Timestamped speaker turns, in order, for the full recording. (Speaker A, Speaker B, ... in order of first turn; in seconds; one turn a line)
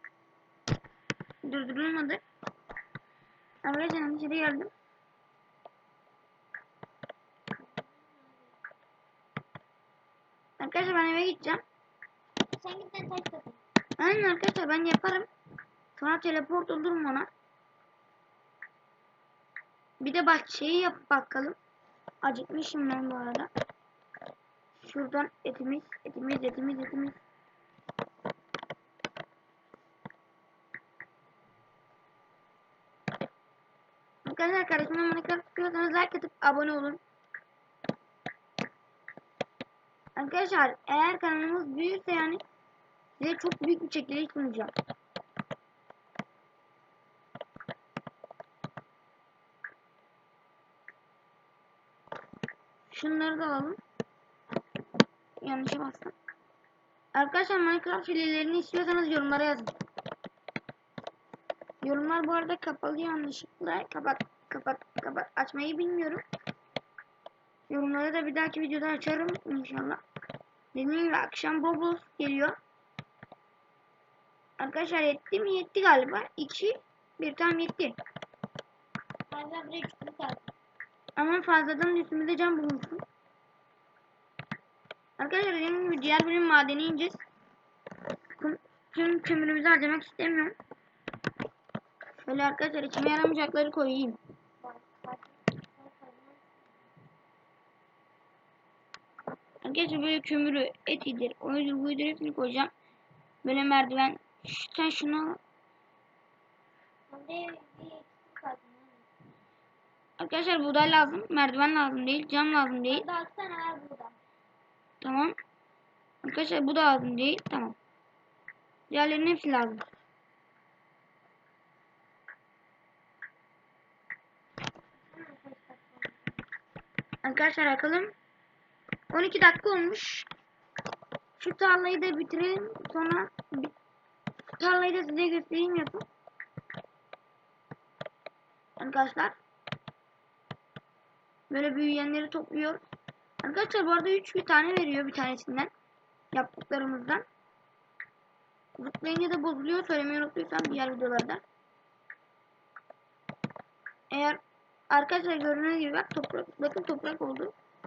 Speaker A: 1.4-2.2
Speaker A: 3.6-4.7
Speaker B: 7.6-8.6
Speaker A: 10.6-11.6
Speaker B: 12.5-13.6
Speaker A: 14.0-15.3
Speaker A: 16.0-17.3
Speaker A: 20.0-21.6
Speaker A: 22.2-23.5
Speaker A: 24.8-27.2
Speaker A: 34.2-37.0
Speaker A: 40.1-42.4
Speaker A: 43.2-44.7
Speaker A: 52.9-53.8
Speaker A: 55.4-56.1
Speaker A: 57.1-59.7
Speaker A: 61.8-66.2
Speaker A: 67.7-70.0
Speaker A: 70.7-72.5
Speaker A: 74.6-77.9
Speaker B: 79.3-80.5
Speaker A: 81.2-83.0
Speaker A: 85.2-87.2
Speaker A: 88.4-90.5
Speaker A: 92.2-94.2
Speaker B: 94.6-96.8
Speaker A: 99.6-102.7
Speaker A: 103.4-105.4
Speaker B: 107.1-109.1
Speaker A: 110.2-113.0
Speaker B: 112.9-114.2
Speaker A: 115.0-115.3
Speaker A: 116.2-117.8
Speaker A: 118.9-119.8
Speaker B: 125.1-126.5
Speaker A: 127.2-128.1
Speaker A: 129.1-130.3
Speaker A: 131.4-133.7
Speaker A: 134.6-136.1
Speaker A: 138.8-139.3
Speaker A: 141.5-142.8
Speaker A: 143.4-145.7
Speaker A: 146.3-147.2
Speaker A: 148.8-151.4
Speaker A: 154.1-157.5